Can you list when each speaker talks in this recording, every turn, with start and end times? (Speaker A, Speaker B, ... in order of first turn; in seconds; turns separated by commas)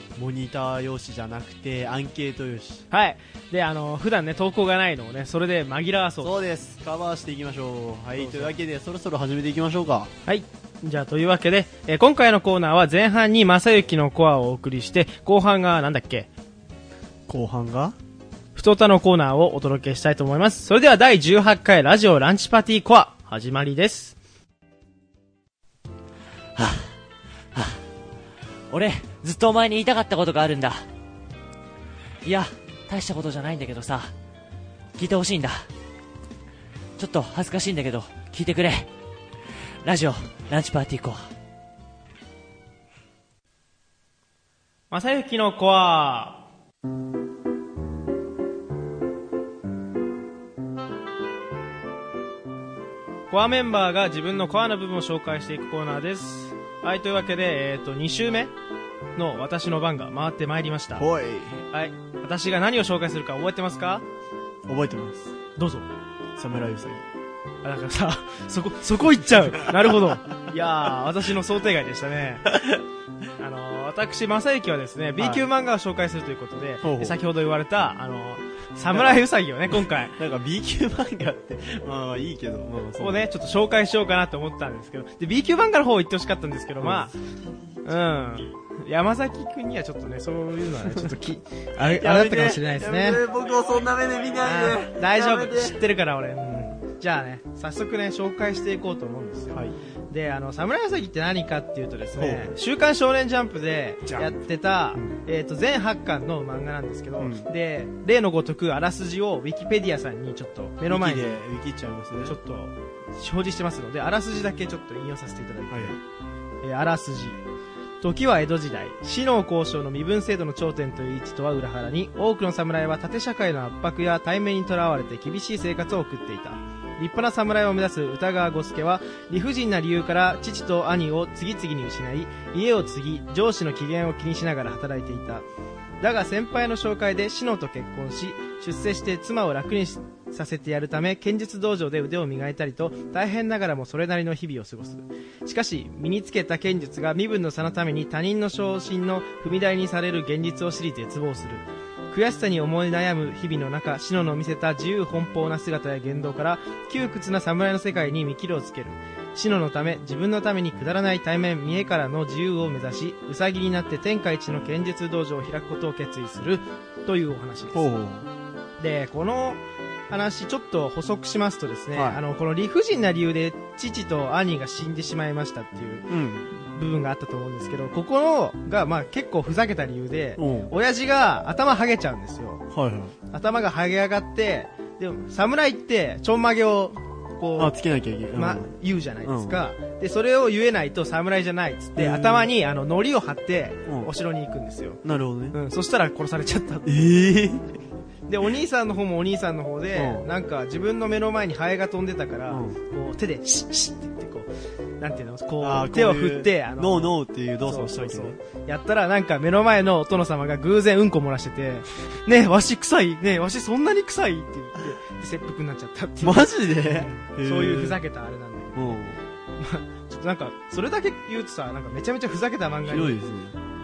Speaker A: 0.1-2.9, Speaker B: 2.9-6.4, Speaker A: 6.2-10.1, Speaker B: 8.2-8.6, Speaker B: 10.3-16.3, Speaker A: 17.3-18.0, Speaker B: 18.6-24.2, Speaker C: 26.6-26.9, Speaker C: 27.5-27.8, Speaker C: 28.7-30.9, Speaker C: 32.2-34.1, Speaker C: 35.0-35.7, Speaker C: 37.0-38.9, Speaker C: 39.8-41.3, Speaker B: 44.9-46.4, Speaker B: 53.3-58.5, Speaker B: 59.1-61.1, Speaker A: 61.0-61.6, Speaker B: 61.7-64.0, Speaker A: 64.7-65.3, Speaker B: 65.6-65.9, Speaker A: 66.4-67.0, Speaker B: 67.6-72.5, Speaker B: 73.4-80.2, Speaker A: 75.2-75.5, Speaker A: 76.8-77.2, Speaker A: 78.9-79.2, Speaker A: 80.2-83.3, Speaker B: 83.0-87.2, Speaker A: 86.8-87.1, Speaker B: 87.8-93.2, Speaker A: 91.8-95.8, Speaker B: 94.4-111.4, Speaker A: 102.2-102.5, Speaker A: 104.1-104.4, Speaker A: 107.2-107.5, Speaker A: 110.9-112.4, Speaker B: 112.2-116.0, Speaker A: 115.7-116.0, Speaker B: 116.6-117.4, Speaker B: 118.0-135.4, Speaker B: 136.0-167.9, Speaker A: 167.7-168.3, Speaker B: 168.8-182.7, Speaker A: 171.9-172.2, Speaker A: 176.1-176.5, Speaker A: 180.4-180.7, Speaker A: 182.7-183.2, Speaker B: 183.3-187.8, Speaker A: 187.6-189.6, Speaker B: 188.3-195.0, Speaker A: 192.0-192.5, Speaker A: 195.0-195.6, Speaker B: 195.5-196.9, Speaker A: 196.9-197.7, Speaker B: 198.3-219.0, Speaker A: 199.9-200.3, Speaker A: 202.5-202.8, Speaker A: 205.6-208.4, Speaker A: 216.2-218.0, Speaker A: 218.8-219.2, Speaker B: 219.6-223.2, Speaker A: 222.9-223.6